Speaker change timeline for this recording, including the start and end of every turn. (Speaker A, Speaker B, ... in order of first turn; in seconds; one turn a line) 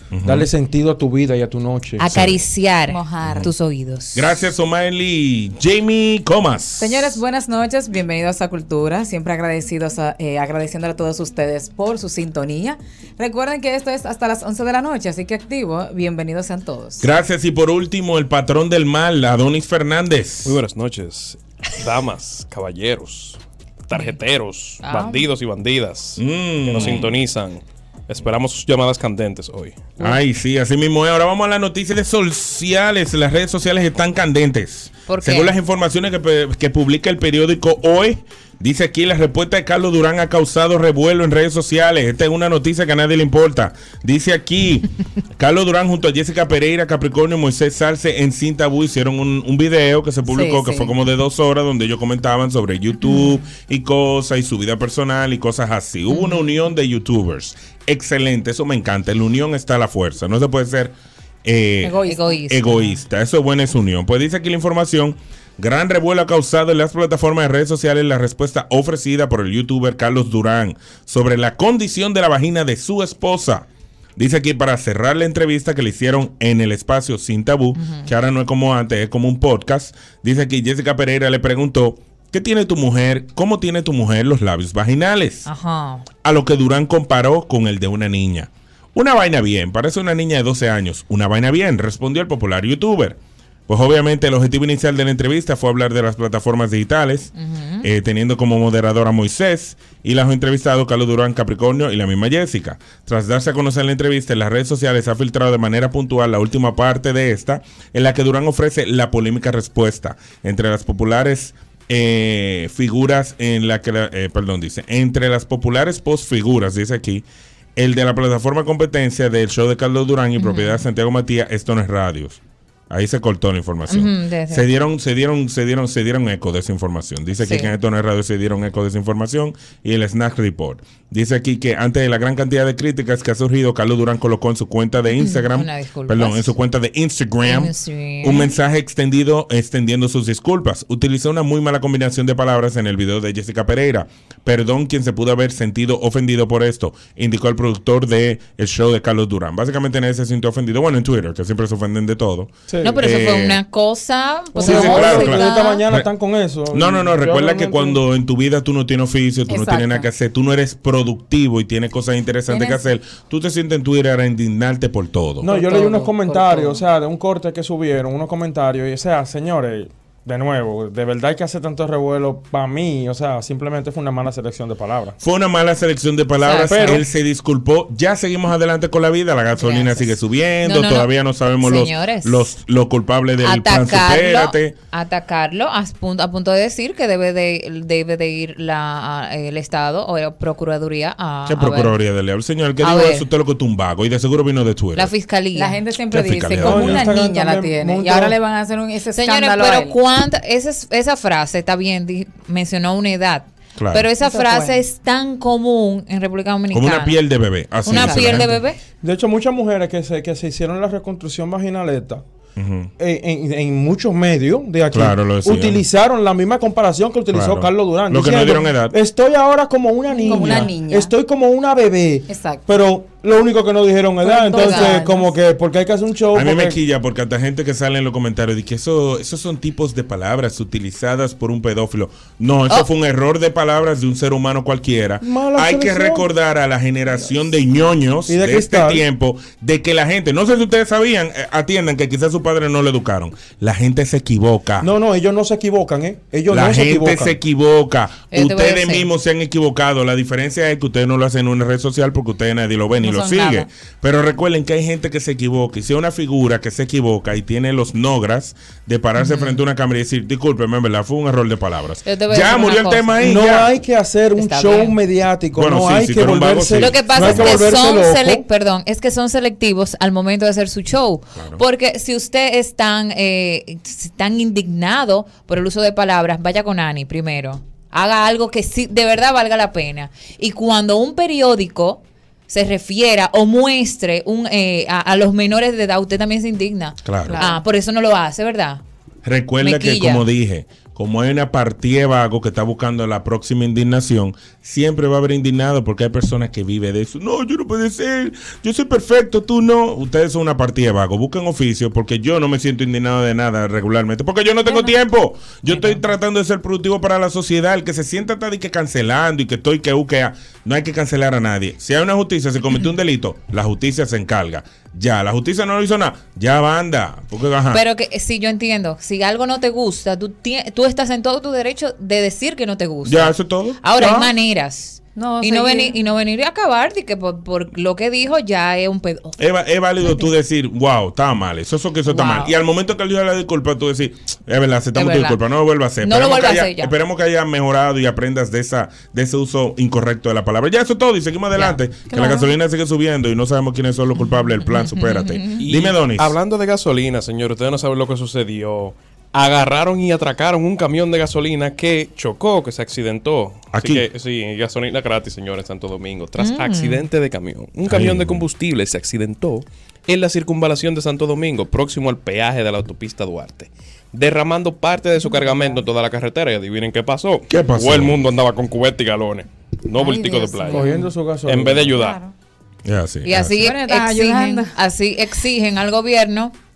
Speaker A: 0.1-0.5
Speaker B: 0.2-2.0
Speaker C: 2.0-4.2
Speaker A: 2.1-2.5
Speaker D: 2.9-3.5
Speaker A: 4.1-7.2
Speaker D: 6.8-17.1
Speaker A: 17.0-20.6
Speaker E: 20.4-30.1
Speaker C: 24.8-25.2
Speaker A: 26.2-27.1
Speaker A: 30.0-85.5
Speaker C: 35.1-35.5
Speaker D: 50.3-50.9
Speaker C: 56.1-56.4
Speaker D: 61.8-62.5
Speaker C: 62.0-63.0
Speaker C: 77.8-78.1
Speaker C: 85.5-86.0
Speaker A: 86.2-97.3
Speaker C: 97.4-97.9
Speaker A: 97.8-117.2
Speaker A: 117.8-122.4
Speaker C: 120.4-120.8
Speaker A: 122.9-153.6
Speaker C: 123.9-124.6
Speaker C: 127.4-127.7
Speaker C: 135.2-136.5
Speaker C: 137.4-138.5
Speaker B: 152.7-153.0
Speaker C: 152.8-155.8
Speaker B: 154.5-158.0
Speaker A: 154.6-156.1
Speaker A: 156.7-165.5
Speaker D: 159.5-160.1
Speaker D: 162.5-162.8
Speaker B: 165.4-175.2
Speaker C: 165.5-166.7
Speaker D: 165.6-166.6
Speaker A: 175.2-184.8
Speaker C: 176.4-177.0
Speaker B: 176.6-177.1
Speaker C: 179.6-181.1
Speaker C: 181.6-182.4
Speaker C: 183.4-191.9
Speaker A: 191.5-195.1
Speaker C: 192.8-193.3
Speaker C: 194.9-195.8
Speaker D: 195.5-199.9
Speaker A: 196.1-197.1
Speaker B: 196.6-198.4
Speaker C: 199.1-207.2
Speaker A: 203.8-204.1
Speaker D: 204.2-204.8
Speaker A: 206.7-208.5
Speaker C: 207.8-208.8
Speaker D: 207.9-208.4
Speaker B: 209.0-212.2
Speaker A: 212.6-212.9
Speaker B: 213.0-226.8
Speaker A: 214.9-215.8
Speaker A: 217.3-219.0
Speaker D: 220.1-221.1
Speaker D: 222.3-222.6
Speaker D: 224.2-225.3
Speaker C: 224.6-225.0
Speaker A: 226.3-244.9
Speaker B: 235.2-236.3
Speaker B: 238.3-239.0
Speaker B: 244.8-247.3
Speaker A: 246.5-263.7
Speaker C: 248.3-249.1
Speaker D: 253.0-253.6
Speaker C: 259.2-259.6
Speaker C: 262.0-263.4
Speaker B: 263.2-268.4
Speaker C: 264.4-264.9
Speaker A: 265.6-267.6
Speaker C: 266.8-288.8
Speaker A: 287.0-287.4
Speaker D: 287.3-287.6
Speaker A: 289.2-317.8
Speaker C: 289.6-290.2
Speaker C: 305.7-306.0
Speaker C: 317.7-329.4
Speaker A: 323.0-324.3
Speaker D: 325.1-325.9
Speaker A: 329.4-346.3
Speaker C: 330.0-330.3
Speaker C: 332.1-332.5
Speaker C: 334.9-335.4
Speaker C: 336.0-336.9
Speaker D: 342.1-342.5
Speaker C: 344.2-345.6
Speaker E: 345.6-370.9
Speaker A: 353.7-354.1
Speaker C: 356.4-357.0
Speaker A: 357.9-358.4
Speaker D: 365.3-365.6
Speaker A: 367.5-368.2
Speaker C: 370.0-370.8
Speaker D: 370.6-371.1
Speaker B: 370.7-372.0
Speaker E: 371.4-372.2
Speaker D: 371.9-372.3
Speaker A: 372.8-373.6
Speaker C: 373.2-376.5
Speaker D: 373.6-374.8